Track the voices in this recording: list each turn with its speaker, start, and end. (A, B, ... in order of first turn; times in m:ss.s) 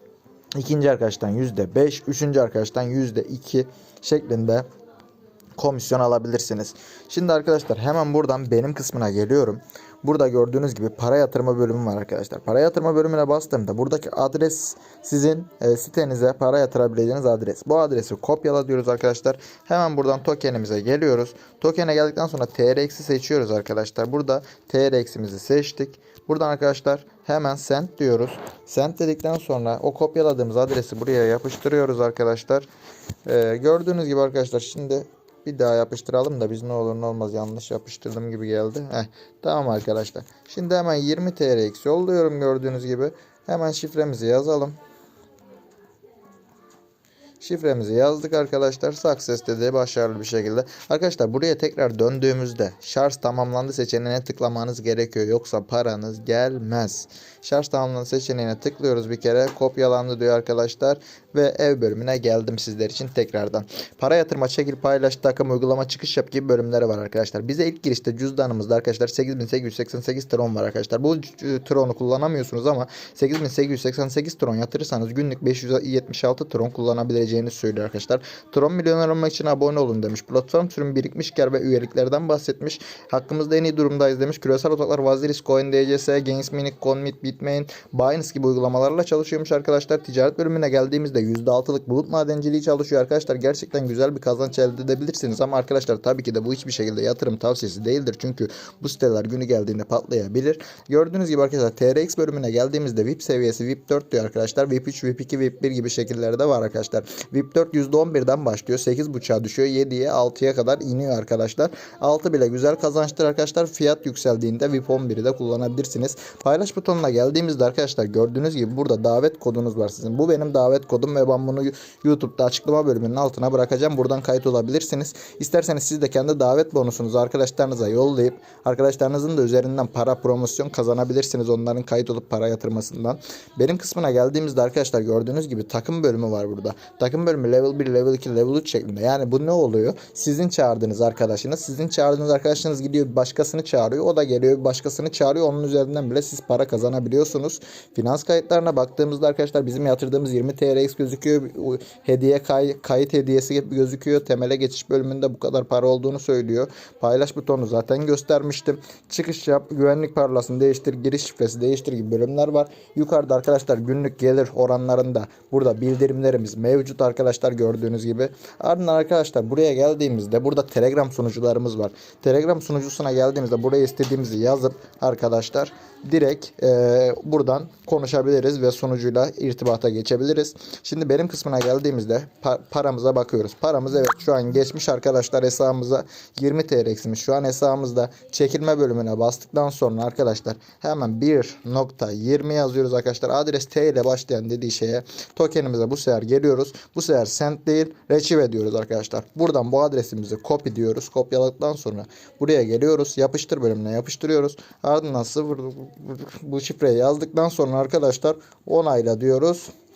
0:00.6-0:04.6 A
0:05.6-0:32.7 A
0:33.2-0:44.8 A
0:47.4-3:29.7 A